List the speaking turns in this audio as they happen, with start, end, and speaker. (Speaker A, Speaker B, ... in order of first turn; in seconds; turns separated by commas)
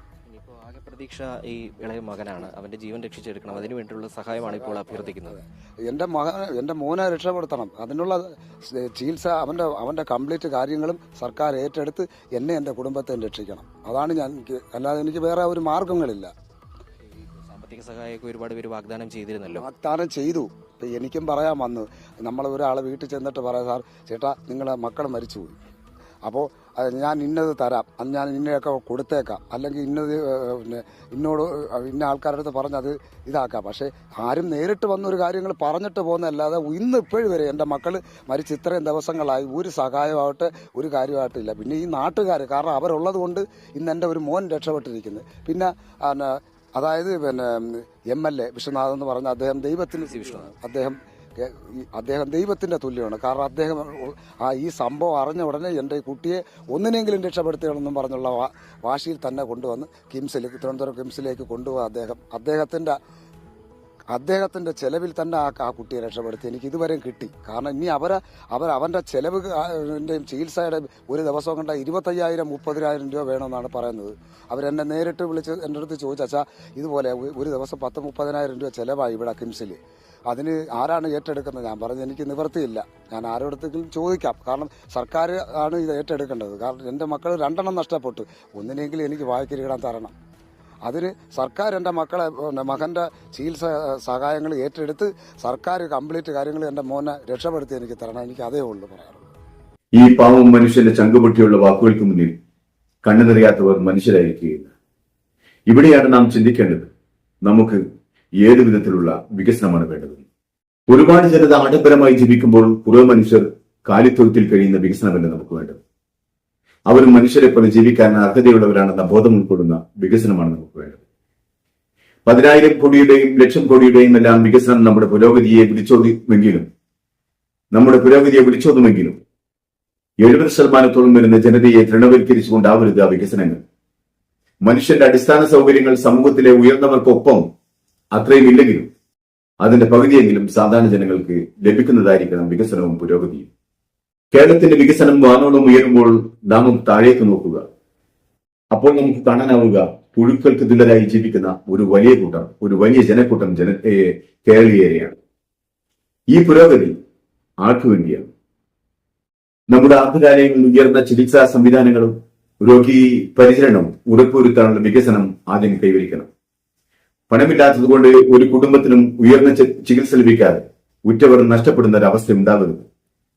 Speaker A: 0.3-5.4, Speaker B: 4.8-16.3, Speaker A: 17.4-19.6, Speaker B: 19.5-25.6, Speaker B: 26.2-63.0, Speaker A: 50.0-50.5, Speaker B: 64.1-79.8, Speaker B: 80.3-90.1, Speaker B: 90.9-99.3, Speaker C: 99.9-102.4, Speaker C: 103.0-104.7, Speaker C: 105.7-106.9, Speaker C: 107.4-107.8, Speaker C: 108.4-110.2, Speaker C: 110.9-115.8, Speaker C: 116.9-121.0, Speaker C: 122.3-126.7, Speaker C: 127.7-129.2, Speaker C: 130.2-133.6, Speaker C: 134.6-137.5, Speaker C: 138.1-138.9, Speaker C: 139.6-143.5, Speaker C: 144.3-147.7, Speaker C: 148.7-155.2, Speaker C: 156.3-157.0, Speaker C: 157.6-158.3, Speaker C: 159.7-166.3, Speaker C: 167.3-172.9